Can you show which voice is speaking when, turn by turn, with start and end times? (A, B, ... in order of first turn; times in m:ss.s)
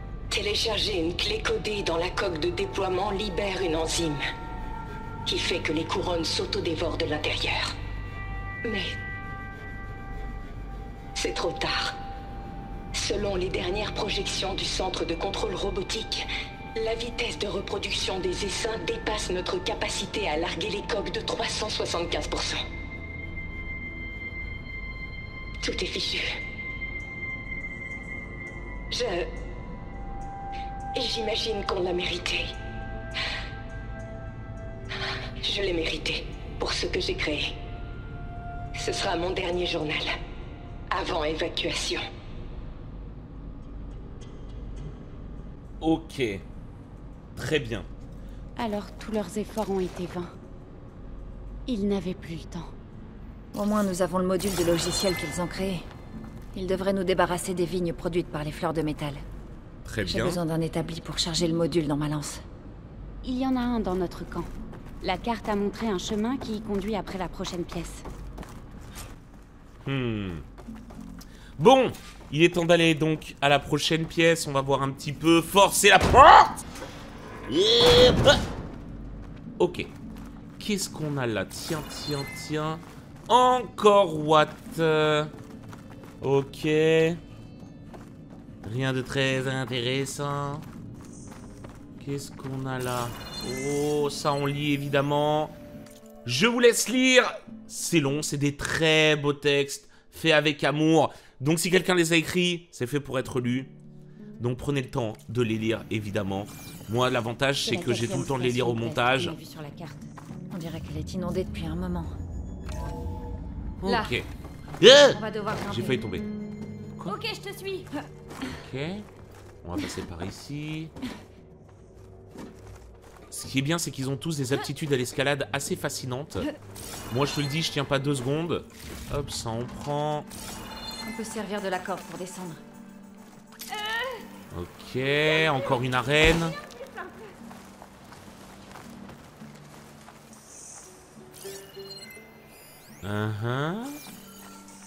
0:00.3-0:04.2 A
0:05.2-0:07.7 A
0:08.6-0:09.0 A
0:11.2-0:12.0 A
0:12.9-0:22.6 A
0:25.6-0:26.3 A
0:28.9-0:29.3 A
0:30.9-0:32.5 A
0:35.4-0:37.6 A
0:38.7-0:40.1 A
0:40.9-0:42.0 A
0:45.8-0:46.4 B
0:47.3-0:47.9 B
0:48.6-0:50.3 C
0:51.7-0:52.7 C
0:53.5-0:55.8 D
0:56.5-0:59.2 D
0:59.8-1:00.4 B
1:00.0-1:02.4 D
1:03.2-1:04.5 C
1:05.0-1:08.0 C
1:09.8-1:10.4 B
1:11.6-1:16.6 B
1:17.5-1:18.4 B
1:19.6-1:19.9 B
1:20.6-1:25.3 B
1:26.2-1:27.2 B
1:28.6-1:30.7 B
1:32.0-1:35.5 B
1:36.2-1:43.7 B
1:44.4-1:49.4 B
1:47.6-1:50.0 C
1:50.5-1:52.1 D
1:53.8-1:54.3 B
1:53.8-1:54.1 D
1:54.8-1:56.3 B
1:55.1-1:56.0 D
1:57.0-1:57.9 C
1:58.4-1:59.1 B
1:59.6-2:00.9 B
2:03.3-2:06.5 B
2:07.1-2:10.3 B
2:11.0-2:12.6 D
2:14.5-2:16.6 B
2:16.8-2:17.2 C
2:23.0-2:24.0 B